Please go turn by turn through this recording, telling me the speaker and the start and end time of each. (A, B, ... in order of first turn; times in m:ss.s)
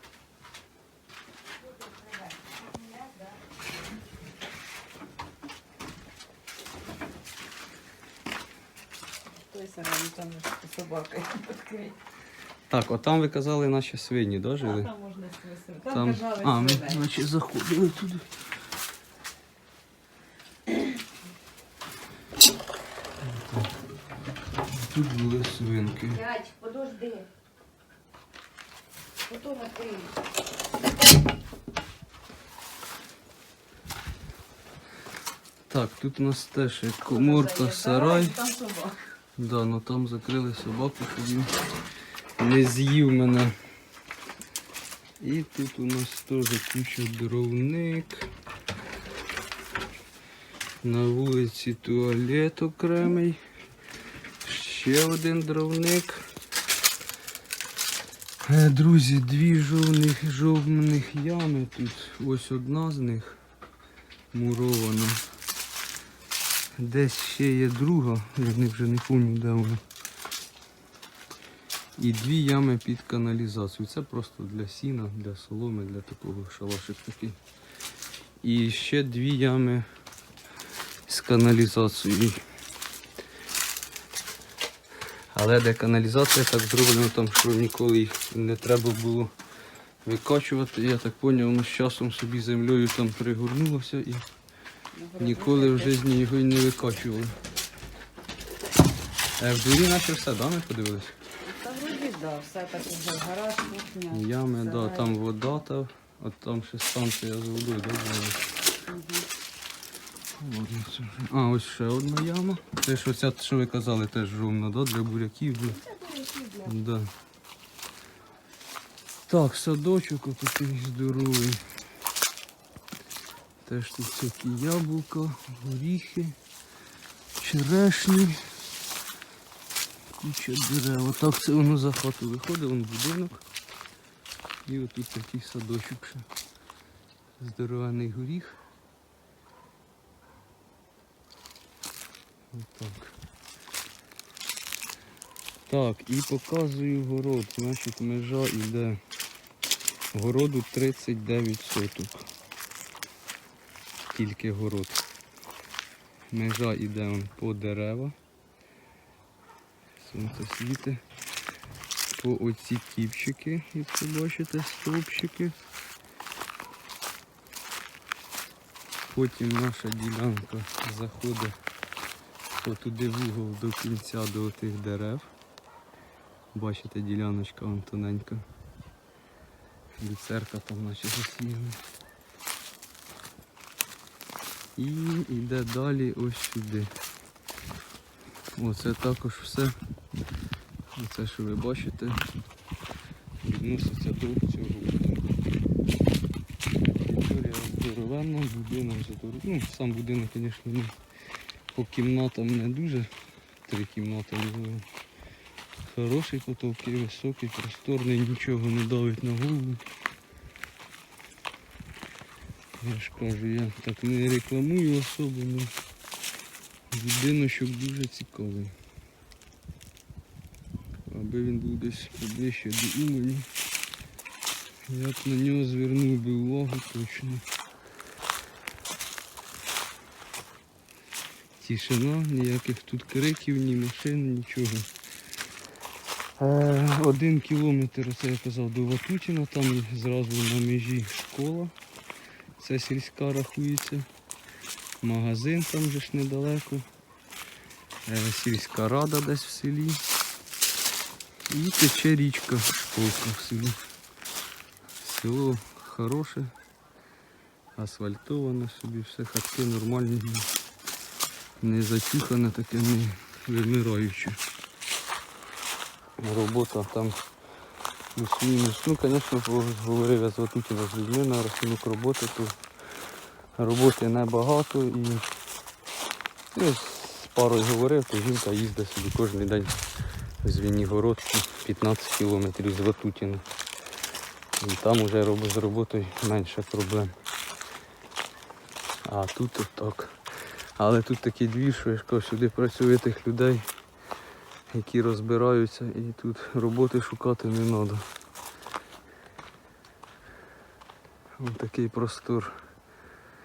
0:01.7-0:03.4 A
0:09.5-0:12.0 A
0:12.7-0:14.9 B
0:14.6-0:17.0 A
0:15.9-0:18.3 B
0:23.2-0:23.7 B
0:24.7-0:26.2 B
0:26.1-0:27.3 A
0:29.3-0:30.1 A
0:35.7-0:38.4 B
0:37.1-0:39.0 A
0:39.4-0:41.5 B
0:42.4-0:43.5 B
0:45.2-0:48.3 B
0:50.8-0:53.4 B
0:54.4-0:56.3 B
0:58.4-1:03.4 B
1:04.3-1:05.2 B
1:06.8-1:09.8 B
1:12.0-1:17.4 B
1:18.4-1:19.9 B
1:21.1-1:22.4 B
1:25.3-1:29.3 B
1:30.0-1:34.3 B
1:34.9-1:36.0 A
1:35.2-1:37.4 B
1:39.4-1:41.2 B
1:41.5-1:45.1 A
1:44.1-1:48.4 B
1:48.9-1:49.3 A
1:50.4-1:55.8 B
1:55.7-1:56.8 A
1:56.6-1:57.1 B
1:59.3-2:01.6 B
2:03.6-2:06.4 B
2:07.4-2:08.5 B
2:10.2-2:13.4 B
2:14.7-2:16.3 B
2:17.4-2:18.6 B
2:22.5-2:23.2 B
2:25.7-2:29.0 B
2:30.1-2:32.3 B
2:34.1-2:35.0 B
2:36.3-2:38.2 B
2:40.0-2:41.0 B
2:42.1-2:45.6 B
2:49.1-2:51.5 B
2:52.6-2:55.3 B
2:56.5-2:58.4 B
3:00.0-3:01.8 B
3:04.8-3:06.9 B
3:08.6-3:09.7 B
3:11.0-3:12.2 B
3:13.4-3:15.3 B
3:17.0-3:21.0 B
3:21.7-3:23.1 B
3:23.6-3:24.9 B
3:25.8-3:29.9 B
3:32.8-3:35.7 B
3:36.9-3:38.8 B
3:41.1-3:43.5 B
3:44.9-3:47.4 B
3:51.6-3:54.9 B
3:56.4-4:01.7 B
4:02.6-4:04.1 B
4:05.0-4:06.8 B
4:08.1-4:10.0 B
4:11.5-4:13.8 B
4:15.0-4:16.5 B
4:17.8-4:20.5 B
4:21.6-4:24.4 B
4:26.2-4:27.2 B
4:28.1-4:32.5 B
4:33.6-4:35.2 B
4:36.5-4:39.7 B
4:40.4-4:43.4 B
4:44.6-4:47.1 B
4:49.0-4:50.2 B
4:50.8-4:53.6 B
4:54.7-4:58.0 B
5:01.4-5:02.6 B